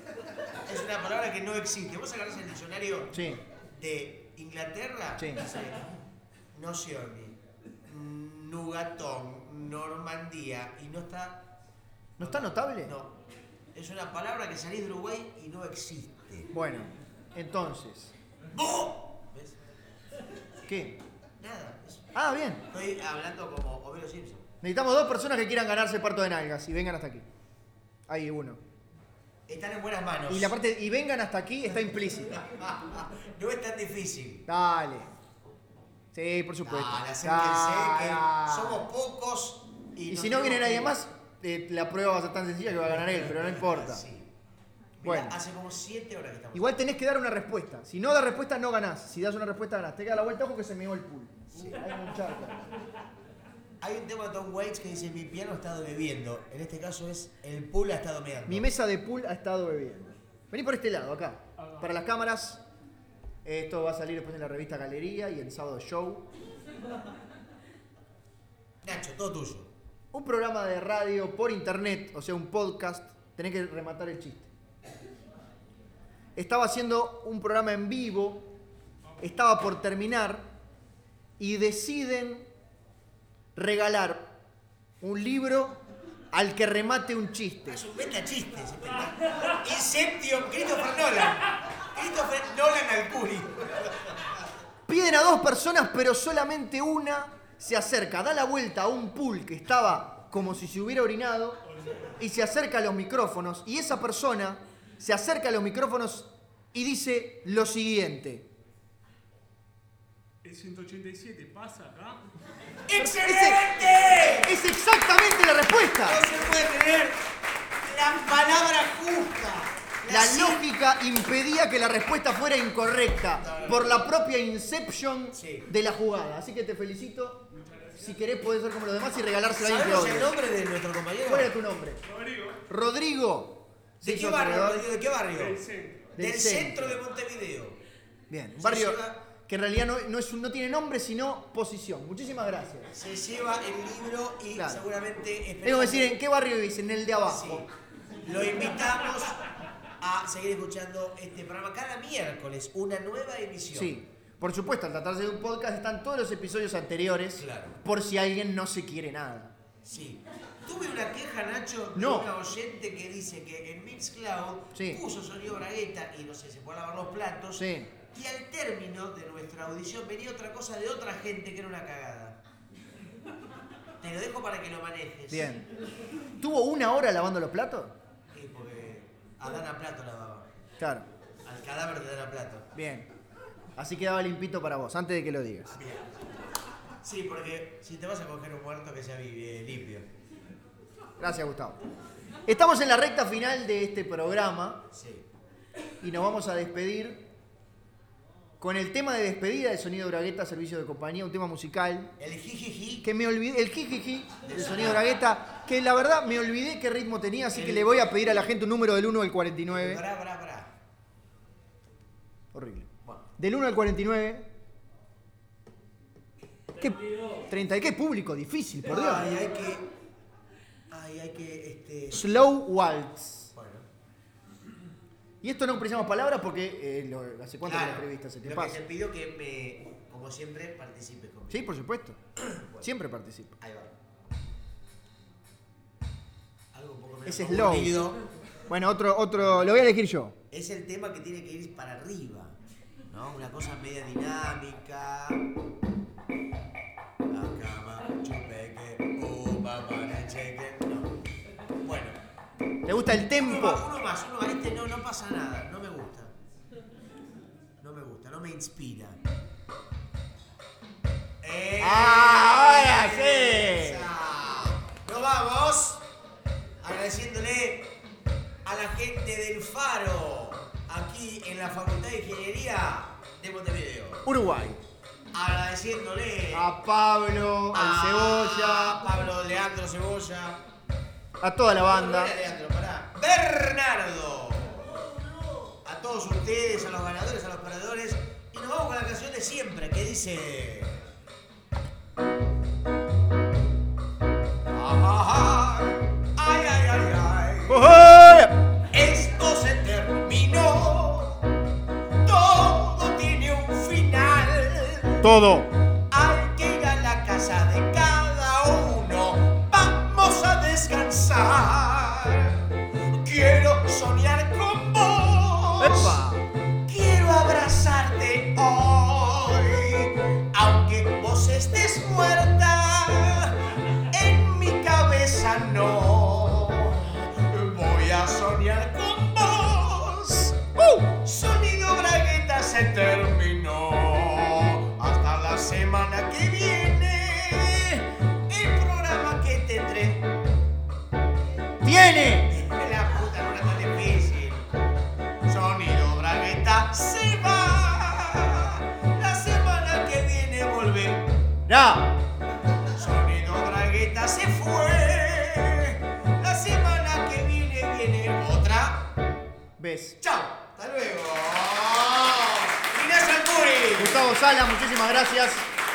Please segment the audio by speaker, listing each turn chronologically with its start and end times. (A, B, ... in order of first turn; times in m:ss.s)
0:00.7-0:05.9 A
0:03.1-0:03.4 B
0:05.2-0:05.4 B
0:06.5-0:11.5 A
0:12.2-0:12.9 B
0:12.2-0:13.2 A
0:13.7-0:16.5 A
0:16.5-0:18.1 B
0:18.5-0:19.6 A
0:20.7-0:21.0 B
0:21.4-0:22.1 A
0:22.2-0:22.6 B
0:22.7-0:24.5 A
0:24.6-0:27.3 B
0:28.1-0:28.6 B
0:29.5-0:30.5 A
0:30.3-0:32.4 B
0:32.1-0:34.5 A
0:34.5-0:35.1 B
0:36.1-0:38.9 B
0:36.6-0:41.0 A
0:40.1-0:44.0 B
0:42.8-0:44.3 A
0:45.0-0:46.8 A
0:45.0-0:45.4 B
0:46.5-0:52.7 B
0:51.5-0:51.8 A
0:53.8-0:58.7 A
0:58.5-1:02.6 B
1:01.6-1:01.9 C
1:03.4-1:06.3 B
1:08.8-1:09.7 A
1:10.1-1:14.5 B
1:16.4-1:18.5 B
1:19.2-1:20.5 B
1:21.4-1:22.5 B
1:23.6-1:24.2 B
1:25.0-1:25.8 B
1:26.3-1:27.8 B
1:27.7-1:34.4 A
1:34.9-1:41.6 B
1:42.2-1:48.5 B
1:50.4-1:52.2 C
1:52.9-1:54.5 A
1:53.0-1:53.7 B
1:54.3-1:56.3 B
1:56.0-1:57.2 A
1:57.8-2:00.6 A
2:00.1-2:10.3 B
2:03.4-2:04.0 A
2:05.3-2:05.7 A
2:07.5-2:08.1 C
2:09.5-2:11.6 A
2:11.3-2:12.0 B
2:12.0-2:12.6 C
2:12.7-2:14.8 B
2:14.0-2:15.6 A
2:15.3-2:16.1 C
2:16.2-2:17.0 B
2:16.2-2:17.8 A
2:18.3-2:22.9 B
2:18.6-2:19.2 A
2:22.9-2:26.2 A
2:24.6-2:24.8 B
2:25.6-2:27.7 B
2:27.2-2:27.7 A
2:28.2-2:29.4 A
2:30.0-2:34.0 A
2:33.7-2:39.5 B
2:37.4-2:37.8 A
2:39.8-2:52.4 A
2:42.0-2:42.3 B
2:44.7-2:45.0 B
2:47.6-2:47.9 B
2:54.0-2:55.6 A
2:55.3-2:55.7 B
2:56.4-2:58.0 B
2:58.3-3:00.5 A
3:00.8-3:01.1 B
3:01.4-3:02.7 A
3:02.8-3:03.1 B
3:03.8-3:05.8 B
3:05.7-3:06.1 A
3:07.0-3:10.1 A
3:11.2-3:11.8 B
3:12.4-3:14.8 B
3:14.9-3:15.3 A
3:16.0-3:17.2 B
3:18.6-3:22.1 B
3:22.2-3:23.1 A
3:23.0-3:30.0 B
3:24.4-3:25.0 A
3:27.5-3:27.9 A
3:29.7-3:30.7 A
3:32.5-3:34.5 B
3:36.8-3:39.3 B
3:38.8-3:39.9 A
3:40.9-3:42.5 A
3:42.1-3:43.5 B
3:43.5-3:43.9 A
3:45.4-3:48.8 B
3:47.6-3:51.7 A
3:51.5-3:52.2 B
3:52.4-3:52.9 A
3:52.8-3:53.6 B
3:53.6-3:53.9 A
3:56.7-3:58.2 A
3:57.2-3:58.0 B
3:58.7-4:00.4 B
3:59.4-3:59.9 A
4:00.5-4:05.4 A
4:07.3-4:11.2 A
4:11.8-4:12.2 A
4:12.8-4:13.9 B
4:13.3-4:16.3 A
4:17.8-4:19.2 A
4:21.4-4:26.0 A
4:21.8-4:24.1 B
4:26.8-4:27.9 A
4:28.6-4:34.3 A
4:34.2-4:34.8 B
4:35.3-4:36.7 A
4:36.5-4:39.1 B
4:37.7-4:40.6 A
4:41.4-4:42.4 B
4:41.8-4:45.0 A
4:45.8-4:51.0 A
4:54.7-4:58.0 A
4:57.7-4:58.6 B
4:58.9-5:01.4 A
5:02.2-5:05.3 A
5:05.2-5:05.7 B
5:06.1-5:12.6 A
5:13.2-5:16.2 A
5:15.8-5:16.5 B
5:16.9-5:40.3 A
5:41.8-5:42.5 B
5:42.5-5:44.7 A
5:45.5-5:51.3 A
5:51.7-5:52.2 B
5:53.0-5:59.1 A
5:59.8-6:00.2 B
6:00.2-6:04.3 A
6:04.0-6:05.7 B